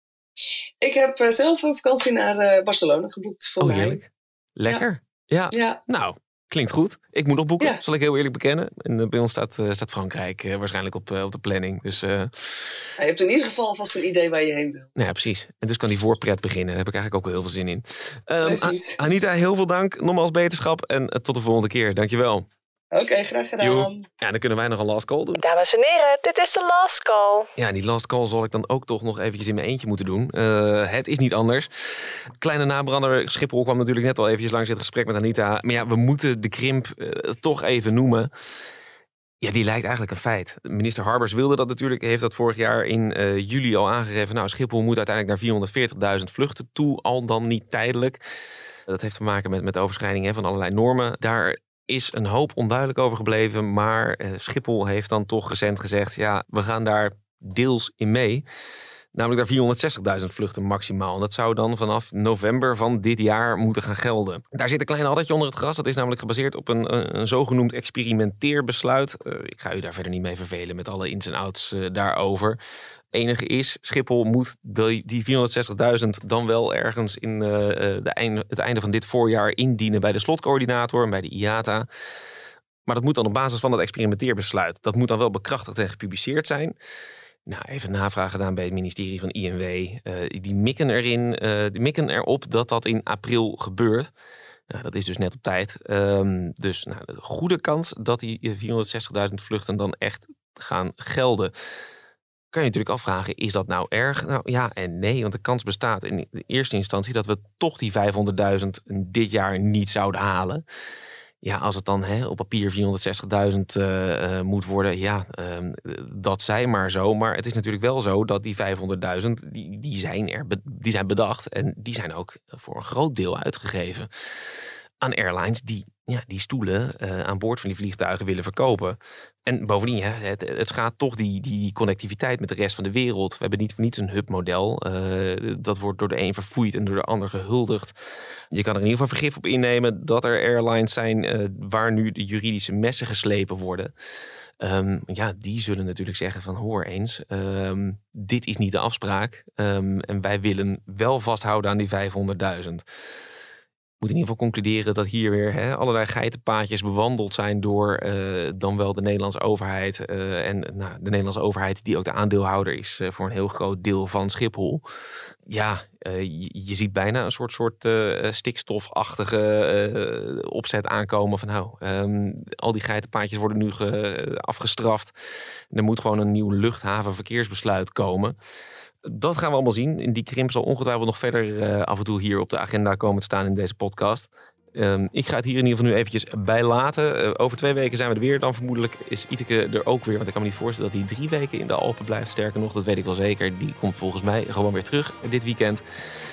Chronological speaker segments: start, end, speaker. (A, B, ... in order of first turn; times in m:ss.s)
0:00.8-0:04.0 A
0:03.6-0:12.8 B
0:05.5-0:05.8 A
0:13.0-0:14.9 A
0:15.0-0:22.4 B
0:18.4-0:19.0 A
0:22.9-0:24.1 A
0:23.6-0:25.4 B
0:25.4-0:27.5 C
0:27.6-0:38.3 B
0:39.4-0:48.2 B
0:48.9-0:58.4 B
0:59.1-1:12.6 B
1:13.1-1:21.9 B
1:22.9-1:26.7 B
1:27.4-1:34.1 B
1:34.7-1:41.5 B
1:42.5-1:50.6 B
1:51.4-2:04.1 B
2:05.0-2:17.9 B
2:18.5-2:23.9 B
2:24.6-2:32.8 B
2:34.0-2:44.8 B
2:45.5-2:55.1 B
2:55.7-2:58.4 B
2:59.0-3:15.8 B